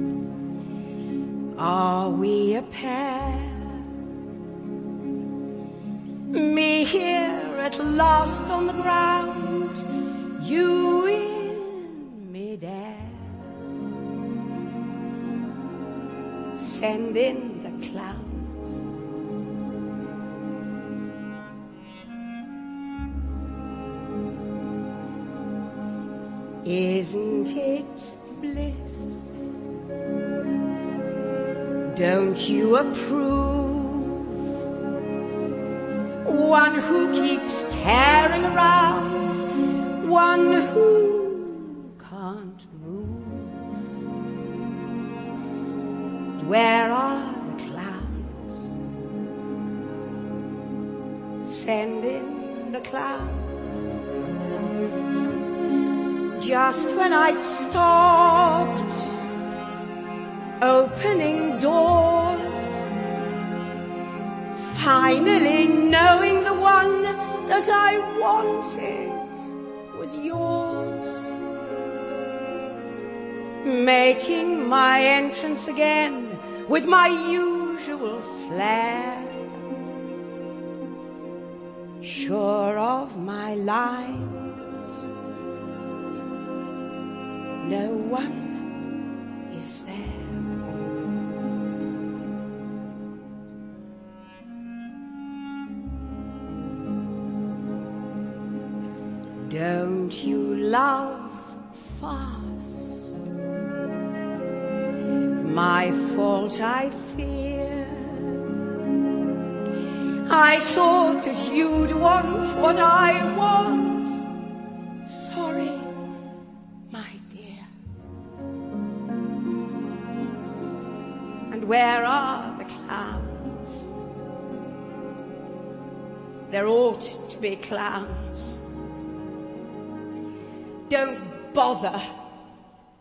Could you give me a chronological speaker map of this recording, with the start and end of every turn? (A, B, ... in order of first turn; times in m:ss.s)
0:01.6-0:03.8 A
0:06.3-0:13.4 A
0:16.6-0:18.9 A
0:26.6-0:29.2 A
0:31.9-0:34.3 A
0:36.2-0:39.4 A
0:40.0-0:43.6 A
0:46.4-0:48.7 A
0:51.4-0:53.8 A
0:56.4-0:59.1 A
1:00.6-1:02.8 A
1:04.6-1:09.3 A
1:09.9-1:11.3 A
1:13.6-1:19.6 A
1:22.0-1:24.4 A
1:27.6-1:28.7 A
1:29.5-1:30.5 A
1:39.4-1:42.9 A
1:45.4-1:48.4 A
1:50.3-1:54.2 A
1:55.0-1:55.9 A
1:56.9-1:57.7 A
2:01.5-2:03.9 A
2:06.5-2:08.6 A
2:10.9-2:12.1 A